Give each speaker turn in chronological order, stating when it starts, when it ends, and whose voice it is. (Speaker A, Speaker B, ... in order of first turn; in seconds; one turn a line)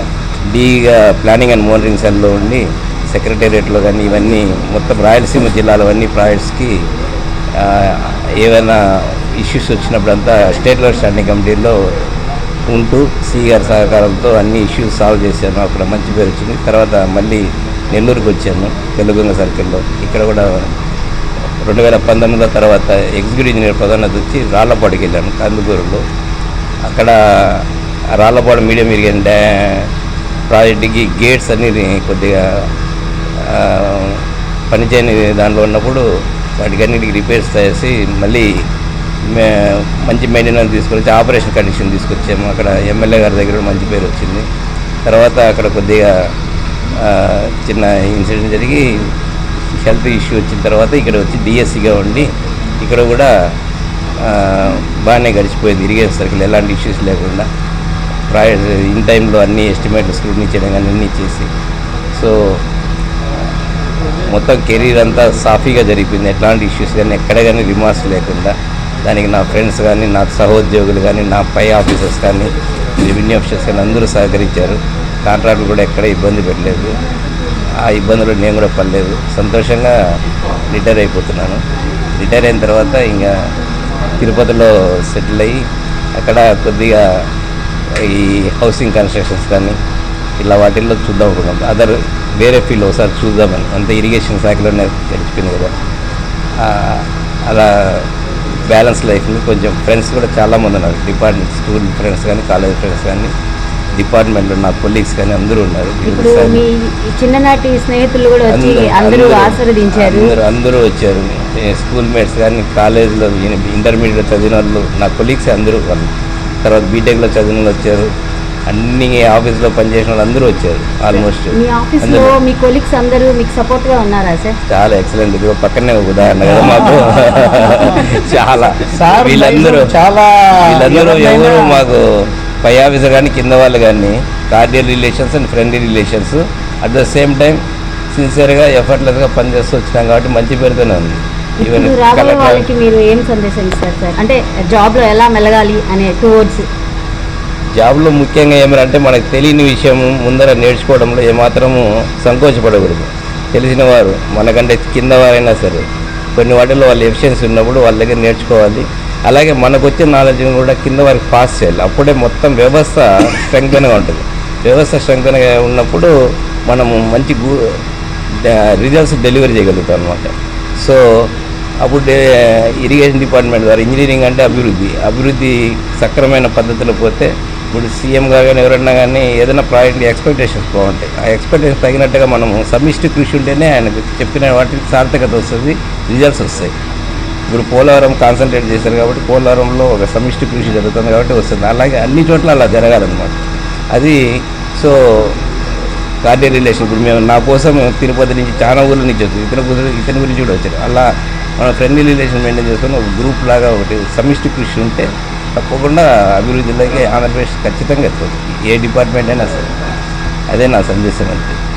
Speaker A: 0.5-6.7
Speaker A: 7.5-11.8
Speaker A: 12.7-20.7
Speaker A: 21.6-26.0
Speaker A: 26.8-27.6
Speaker A: 28.2-29.9
Speaker A: 30.5-32.6
Speaker A: 33.4-36.0
Speaker A: 36.6-38.5
Speaker A: 39.3-44.4
Speaker A: 45.1-46.1
Speaker A: 47.0-48.8
Speaker A: 49.8-52.3
Speaker A: 52.8-53.3
Speaker A: 54.2-57.5
Speaker A: 58.3-61.5
Speaker A: 62.1-62.6
Speaker A: 64.3-77.0
Speaker A: 77.8-79.9
Speaker A: 80.7-81.6
Speaker A: 82.1-83.3
Speaker A: 84.2-85.6
Speaker A: 86.2-87.0
Speaker A: 88.0-89.8
Speaker A: 90.4-95.7
Speaker A: 96.6-98.0
Speaker A: 98.7-103.3
Speaker A: 103.9-106.6
Speaker B: 106.0-110.3
Speaker A: 108.5-116.1
Speaker A: 116.6-118.1
Speaker A: 118.7-122.3
Speaker B: 121.5-124.5
Speaker A: 124.7-129.9
Speaker C: 128.9-131.8
Speaker A: 130.6-137.6
Speaker A: 138.1-142.7
Speaker B: 141.6-146.7
Speaker A: 147.8-155.8
Speaker A: 156.3-166.1
Speaker A: 166.7-167.8
Speaker A: 168.4-171.3
Speaker A: 171.8-186.7
Speaker A: 187.5-194.2
Speaker A: 194.8-195.3
Speaker A: 196.2-209.7
Speaker A: 210.5-211.6